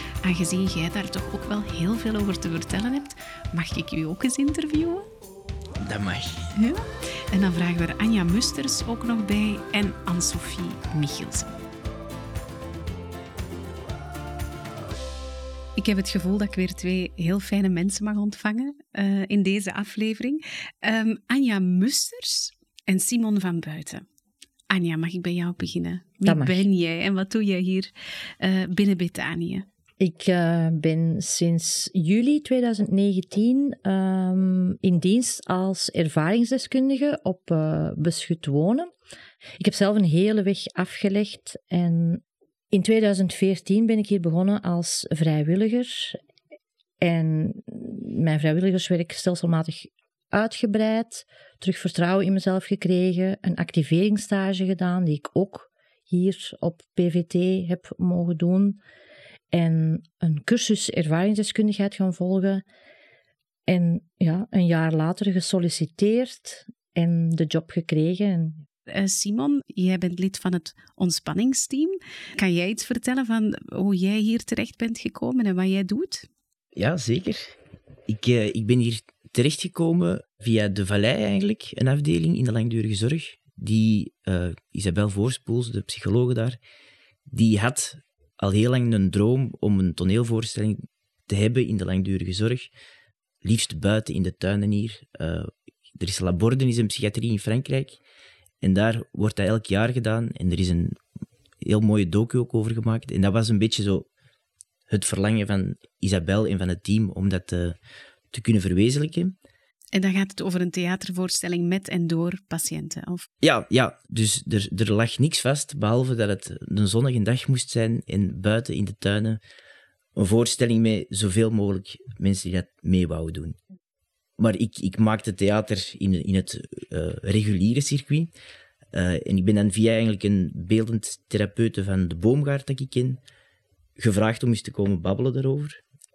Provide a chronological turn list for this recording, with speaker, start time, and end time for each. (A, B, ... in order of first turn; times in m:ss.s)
0:00.2-0:05.0 A
0:05.8-0:06.5 B
0:06.6-0:11.6 A
0:15.8-0:24.0 A
0:24.7-0:29.6 A
0:26.2-0:26.6 C
0:30.0-0:38.9 C
0:39.6-0:46.2 C
0:47.0-0:58.8 C
0:59.5-1:02.6 C
1:03.7-1:08.6 C
1:08.9-1:16.3 A
1:16.8-1:17.6 B
1:18.1-1:26.6 B
1:27.3-1:32.7 B
1:33.4-1:38.0 B
1:38.6-1:41.0 B
1:41.6-1:44.1 B
1:44.9-1:47.8 B
1:48.3-1:49.3 B
1:49.9-1:53.3 A
1:53.4-1:59.4 B
2:00.1-2:03.6 B
2:04.4-2:08.3 B
2:08.9-2:13.2 B
2:14.0-2:15.8 B